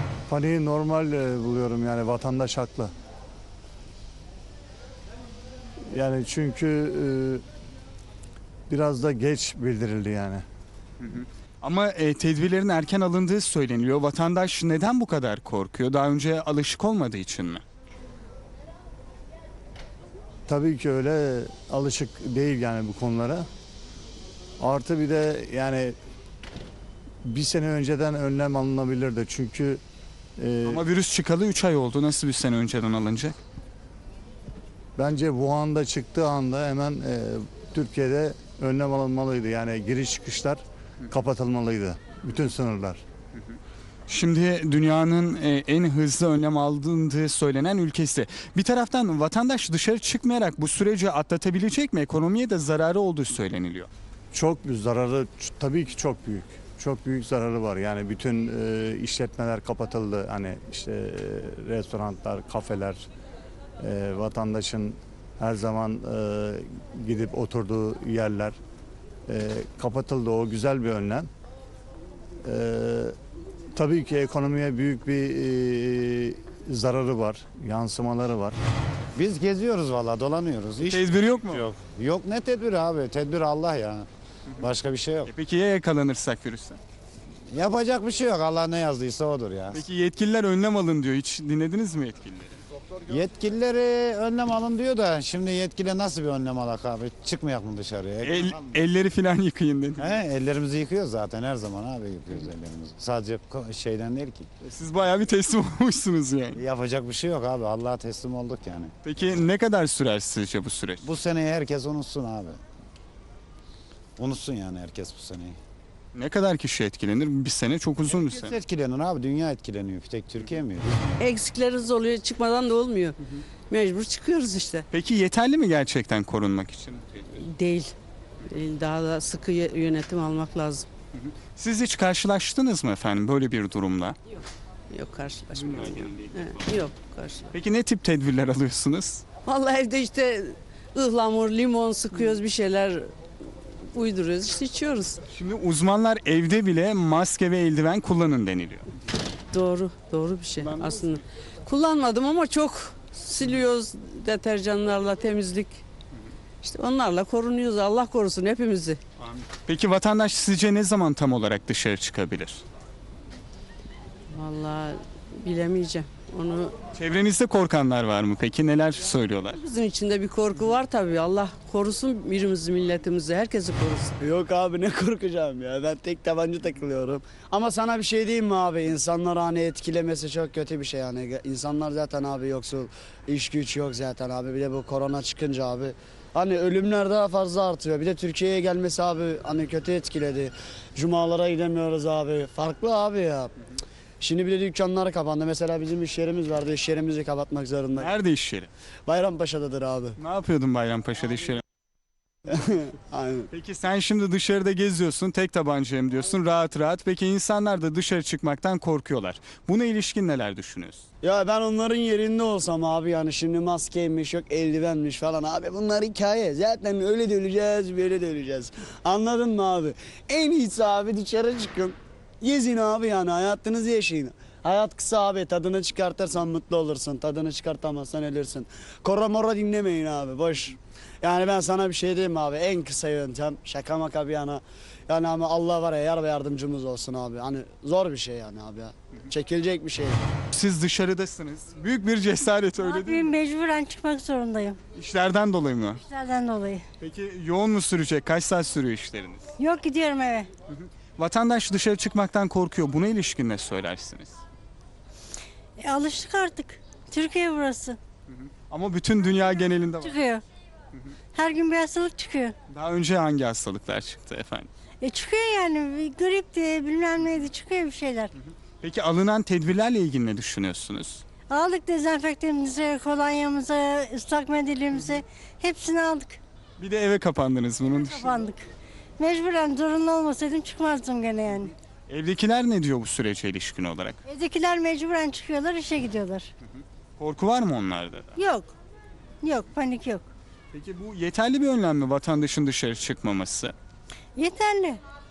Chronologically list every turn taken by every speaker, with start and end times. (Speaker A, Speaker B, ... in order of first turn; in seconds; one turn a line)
Speaker A: 0.3-2.9
Speaker A: 5.9-7.4
Speaker A: 8.7-10.4
Speaker B: 11.0-17.6
Speaker A: 20.5-23.5
Speaker A: 24.6-25.9
Speaker A: 27.2-29.8
Speaker A: 30.4-30.8
Speaker B: 30.6-33.4
Speaker A: 35.0-43.0
Speaker B: 44.1-53.9
Speaker A: 54.3-63.1
Speaker A: 63.8-68.6
Speaker A: 69.3-71.3
Speaker A: 72.4-73.2
Speaker A: 73.7-78.6
Speaker C: 79.2-84.1
Speaker B: 80.8-81.6
Speaker C: 84.6-85.3
Speaker B: 85.3-86.8
Speaker C: 87.5-89.8
Speaker B: 89.7-92.5
Speaker C: 93.1-98.8
Speaker B: 98.2-100.1
Speaker C: 100.0-104.5
Speaker B: 104.6-106.6
Speaker C: 106.5-108.9
Speaker B: 109.0-111.0
Speaker C: 111.0-112.6
Speaker C: 114.2-115.6
Speaker B: 116.1-118.6
Speaker C: 118.1-121.2
Speaker D: 121.2-123.2
Speaker D: 123.7-124.8
Speaker B: 124.9-127.1
Speaker D: 127.4-127.9
Speaker D: 128.5-130.9
Speaker B: 131.2-134.2
Speaker D: 134.9-137.5
Speaker B: 135.5-136.6
Speaker B: 137.5-139.2
Speaker D: 139.4-143.1
Speaker D: 143.9-145.2
Speaker B: 145.3-148.9
Speaker D: 149.5-155.8
Speaker D: 156.6-159.0
Speaker B: 159.2-162.6
Speaker D: 164.3-166.8
Speaker B: 166.9-169.6
Speaker D: 169.6-174.2
Speaker E: 174.2-193.5
Speaker E: 194.2-198.1
Speaker B: 198.0-198.7
Speaker E: 199.1-200.2
Speaker B: 200.2-201.6
Speaker E: 202.5-203.5
Speaker B: 203.5-211.0
Speaker E: 211.2-240.3
Speaker B: 240.5-243.3
Speaker F: 242.8-244.8
Speaker B: 244.9-246.0
Speaker F: 246.1-246.8
Speaker B: 247.0-249.4
Speaker F: 249.6-250.5
Speaker B: 250.7-254.3
Speaker F: 255.8-258.0
Speaker B: 258.3-260.1
Speaker F: 260.0-260.4
Speaker F: 261.3-262.5
Speaker B: 262.7-264.7
Speaker F: 265.0-268.3
Speaker B: 268.8-271.2
Speaker F: 271.5-276.4
Speaker B: 276.8-278.3
Speaker F: 277.9-278.7
Speaker F: 279.2-281.7
Speaker B: 282.1-284.2
Speaker F: 284.2-286.5
Speaker B: 287.2-288.4
Speaker F: 288.4-288.7
Speaker F: 289.4-290.2
Speaker B: 290.7-293.7
Speaker F: 294.4-295.0